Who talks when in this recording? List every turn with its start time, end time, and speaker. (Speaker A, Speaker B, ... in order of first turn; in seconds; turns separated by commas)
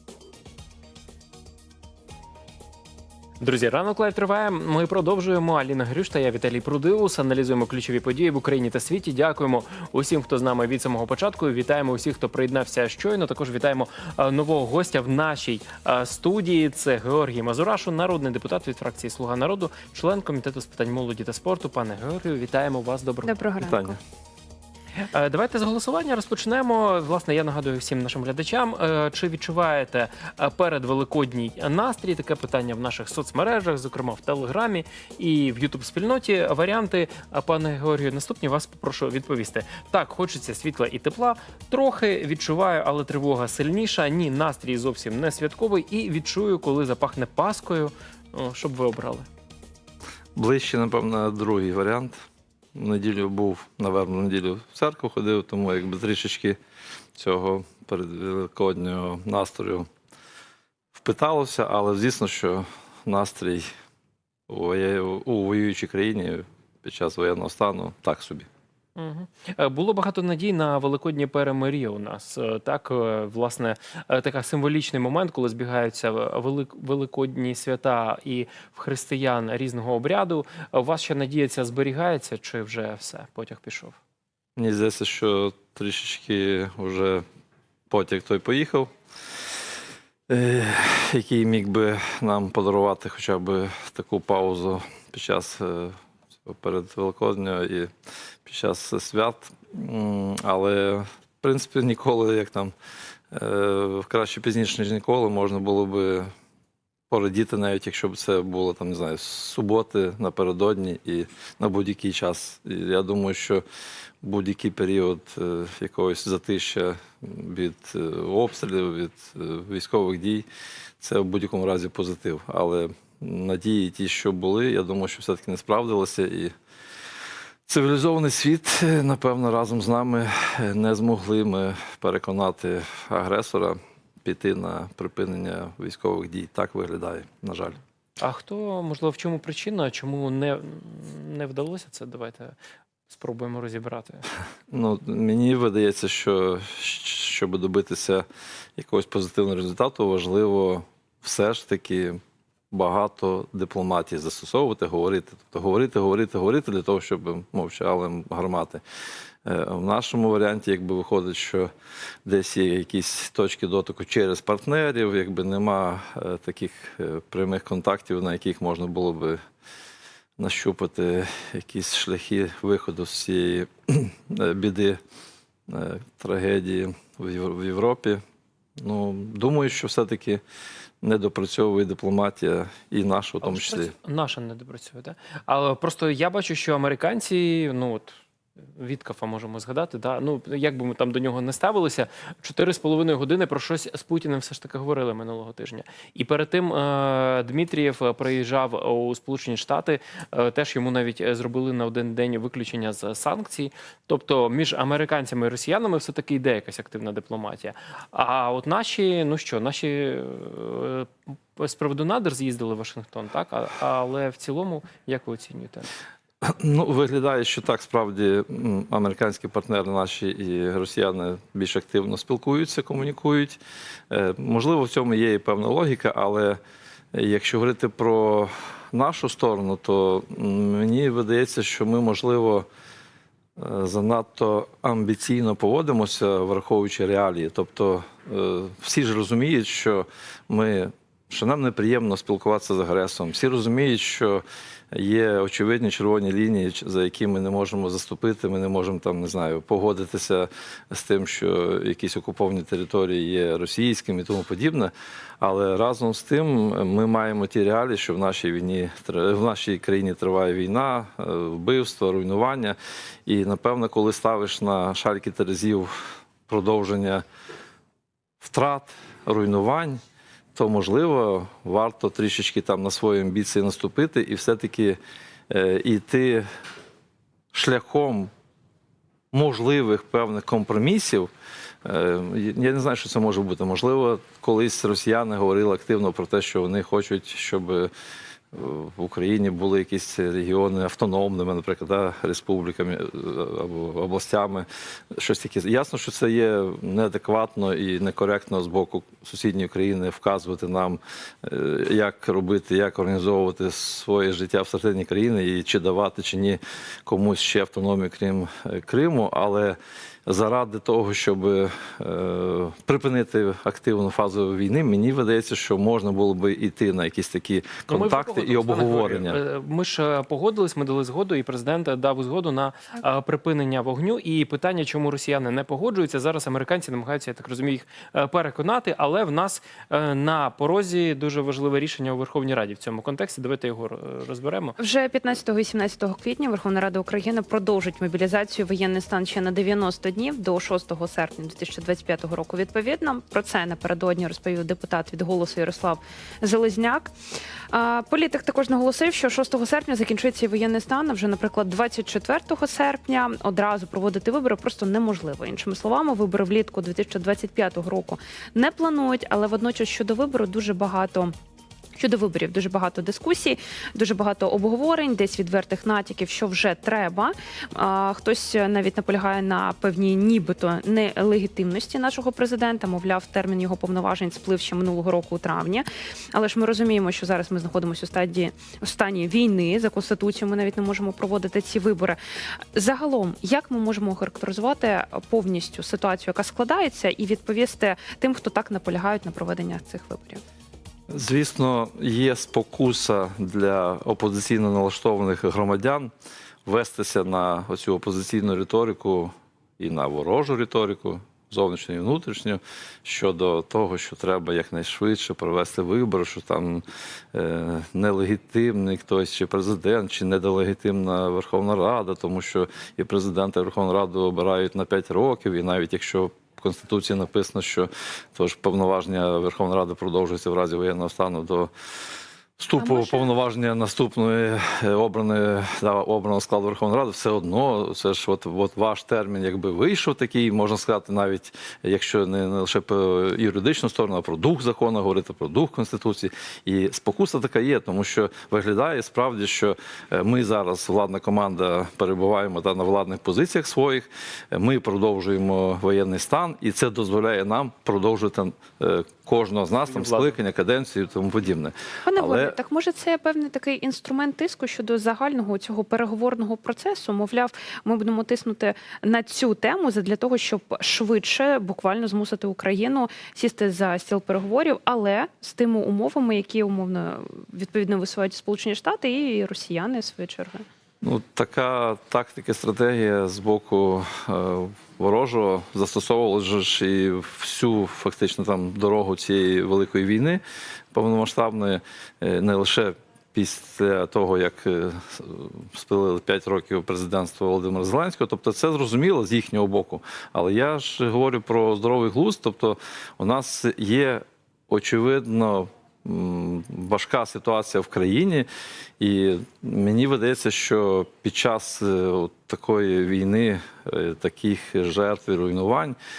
Speaker A: 3.4-23.3, Speaker B: 23.2-23.8, Speaker C: 23.6-24.0, Speaker A: 25.0-49.3, Speaker C: 50.4-52.2, Speaker C: 52.8-56.6, Speaker C: 57.2-59.9, Speaker C: 61.0-63.7, Speaker C: 64.5-68.5, Speaker A: 69.0-84.0, Speaker C: 84.6-87.2, Speaker C: 87.9-88.9, Speaker C: 90.3-97.9, Speaker C: 98.5-102.7, Speaker C: 103.3-106.3, Speaker C: 107.1-113.6, Speaker C: 114.2-120.5, Speaker C: 121.0-126.5, Speaker C: 127.7-137.8, Speaker A: 138.2-142.5, Speaker A: 143.1-144.3, Speaker C: 144.7-148.2, Speaker C: 148.8-152.2, Speaker C: 152.7-158.8, Speaker C: 159.5-161.7, Speaker C: 162.3-169.4, Speaker C: 170.4-175.0, Speaker C: 175.7-178.2, Speaker C: 178.8-180.4, Speaker C: 181.0-183.9, Speaker A: 183.4-188.1, Speaker A: 188.8-215.9, Speaker C: 216.4-223.6, Speaker C: 224.1-226.6, Speaker C: 227.1-232.7, Speaker C: 233.6-265.9, Speaker C: 266.5-267.2, Speaker C: 268.4-270.0, Speaker C: 270.6-275.0, Speaker C: 275.5-276.5, Speaker C: 277.5-278.3, Speaker C: 279.3-281.3, Speaker C: 281.9-287.9, Speaker C: 288.5-319.4, Speaker A: 317.9-334.8, Speaker B: 334.8-347.1, Speaker B: 347.7-361.3, Speaker B: 362.0-382.2, Speaker B: 382.8-390.4, Speaker C: 391.1-396.1, Speaker C: 396.7-406.8, Speaker C: 407.3-421.7, Speaker C: 422.6-452.6, Speaker B: 422.8-423.3, Speaker A: 449.9-450.4, Speaker B: 452.1-470.6, Speaker C: 471.0-480.4, Speaker C: 480.9-498.5, Speaker C: 499.0-506.0